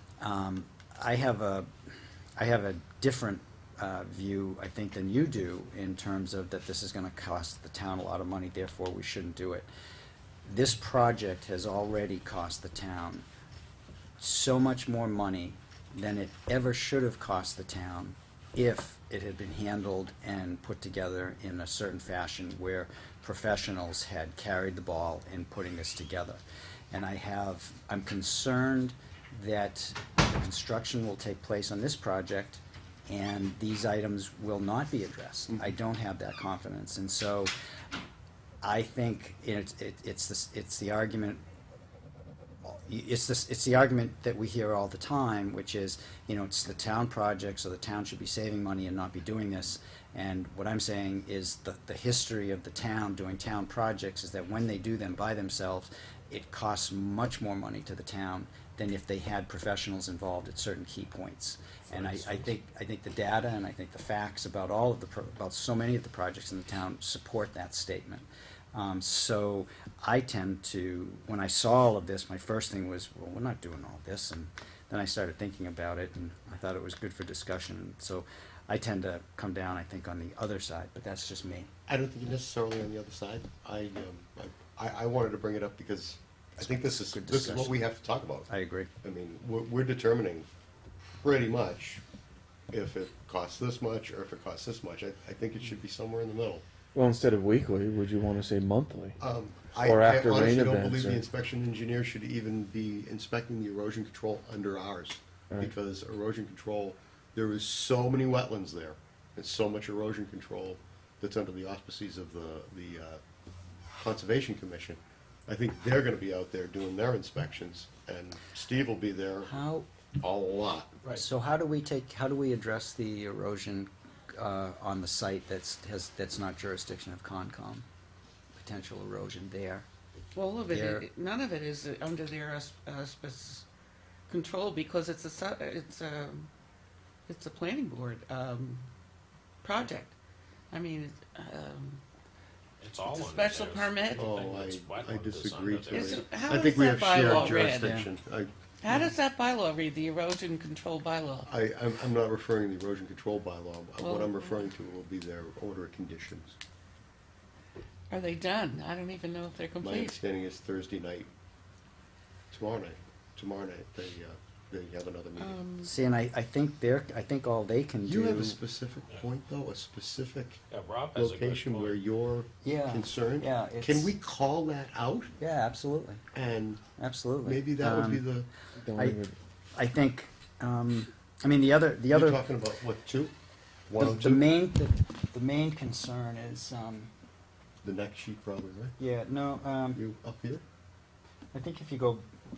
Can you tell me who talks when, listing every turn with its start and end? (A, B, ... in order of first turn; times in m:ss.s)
0:00.2-0:01.7 A
0:02.4-0:09.7 A
0:10.4-0:13.3 A
0:14.2-0:26.4 A
0:26.9-0:37.5 A
0:38.6-0:41.4 A
0:42.6-1:21.7 A
1:01.9-1:02.5 B
1:21.9-1:28.5 C
1:26.6-1:27.8 A
1:28.5-1:28.9 A
1:29.0-1:30.5 C
1:31.2-1:32.0 C
1:32.7-1:36.6 C
1:37.0-1:39.2 D
1:39.2-1:53.2 C
1:39.8-1:41.2 D
1:53.9-1:59.6 C
1:59.4-1:59.9 A
2:00.2-2:01.0 C
2:01.1-2:07.9 A
2:08.5-2:09.9 A
2:10.4-2:13.7 E
2:10.7-2:11.1 A
2:14.3-2:16.5 E
2:17.3-2:18.8 E
2:19.6-2:20.2 E
2:20.7-2:22.0 E
2:22.8-2:26.3 B
2:23.0-2:24.3 E
2:24.2-2:28.5 C
2:25.9-2:28.0 E
2:27.2-2:28.1 A
2:28.8-2:31.5 E
2:31.4-2:36.6 C
2:34.0-2:34.7 E
2:38.1-2:40.2 E
2:39.8-2:41.3 C
2:42.5-2:45.6 C
2:45.4-2:45.9 E
2:45.8-2:48.6 A
2:48.0-2:50.6 C
2:50.7-2:52.0 B
2:51.1-2:55.3 C
2:52.6-2:54.1 A
2:55.4-2:56.2 A
2:56.3-2:56.8 C
2:57.0-2:58.3 A
2:57.4-2:58.5 C
2:58.8-2:59.4 D
2:58.9-2:59.2 A
2:59.8-3:02.4 A
3:02.1-3:03.3 C
3:03.9-3:04.5 C
3:04.0-3:07.1 A
3:07.8-3:09.0 C
3:09.0-3:10.0 A
3:09.9-3:10.6 C
3:11.5-3:12.2 A